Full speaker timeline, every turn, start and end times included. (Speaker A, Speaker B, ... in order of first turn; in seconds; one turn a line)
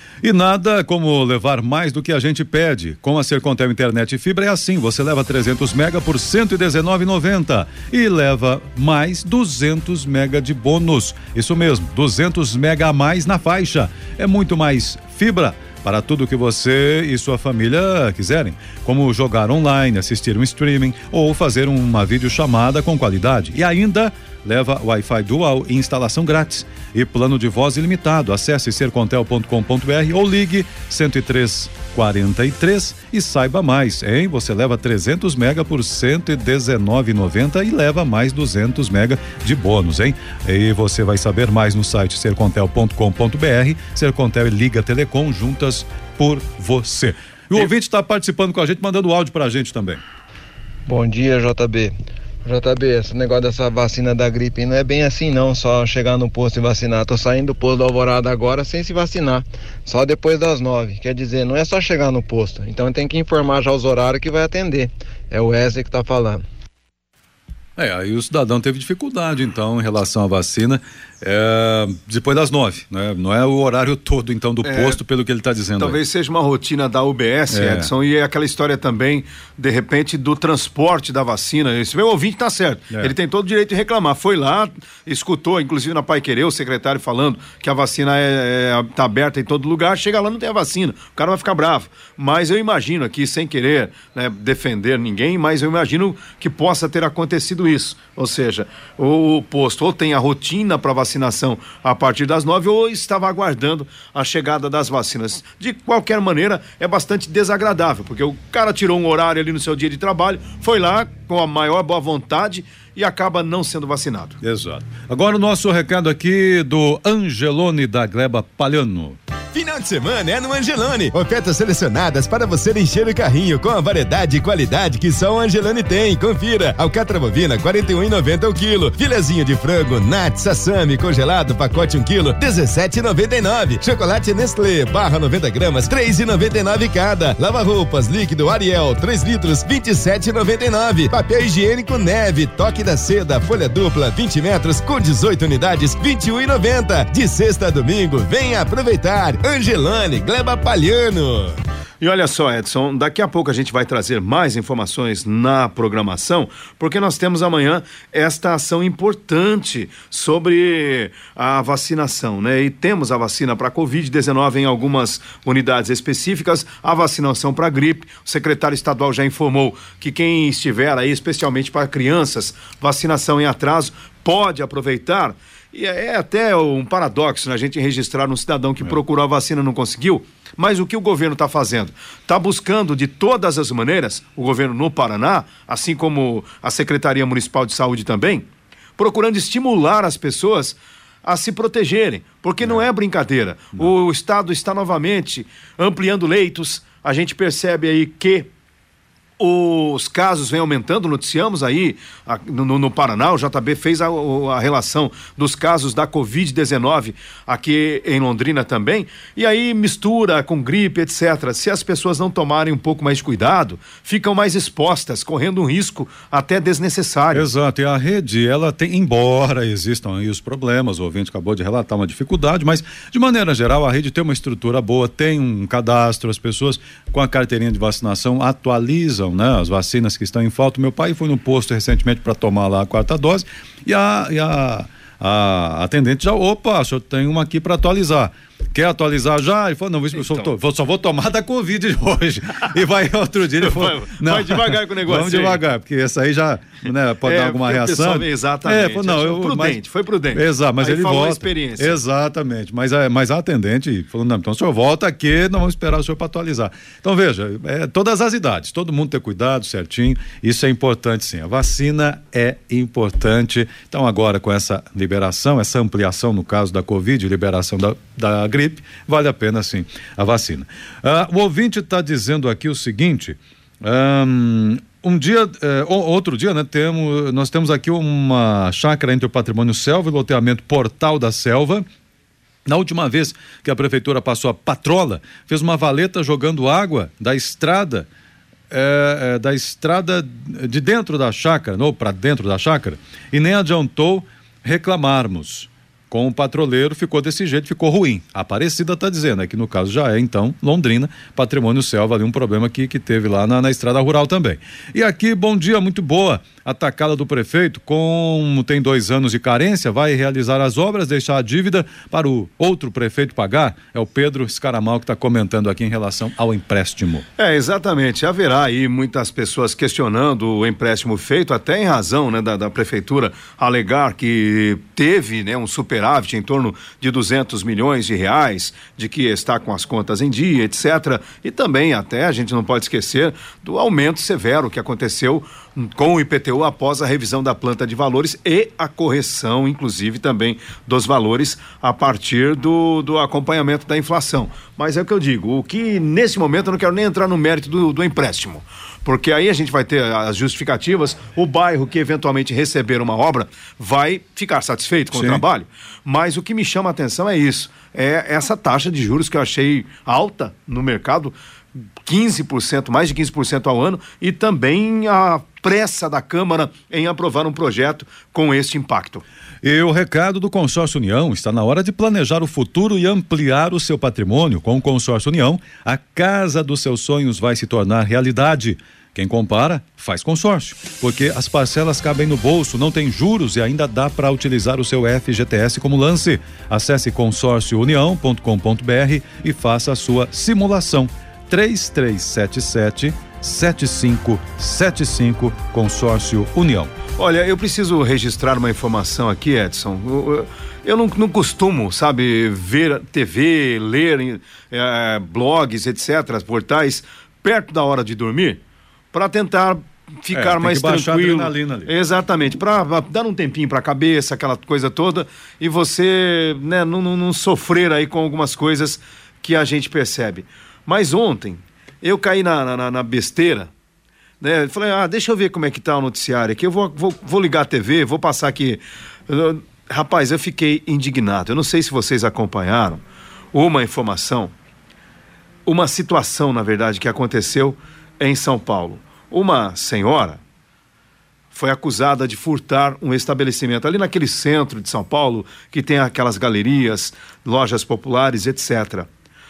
Speaker A: 0.2-50.0
Speaker B: 50.9-66.4
Speaker A: 67.8-76.0
Speaker C: 74.6-75.0
Speaker C: 75.8-114.4
Speaker A: 77.5-77.9
Speaker A: 114.4-119.2
Speaker D: 119.5-151.6
Speaker C: 152.0-188.4
Speaker C: 189.0-198.5
Speaker C: 199.4-217.5
Speaker A: 217.3-249.8
Speaker C: 240.2-240.5
Speaker C: 243.6-245.6
Speaker C: 247.2-252.0
Speaker A: 250.3-281.8
Speaker A: 282.6-288.1
Speaker A: 288.7-317.2
Speaker C: 317.4-361.3
Speaker A: 355.1-355.4
Speaker C: 362.0-369.2
Speaker A: 369.6-396.9
Speaker C: 397.2-408.6
Speaker C: 409.1-423.7
Speaker A: 410.3-411.9
Speaker C: 424.4-434.5
Speaker C: 435.6-440.4
Speaker C: 441.5-449.1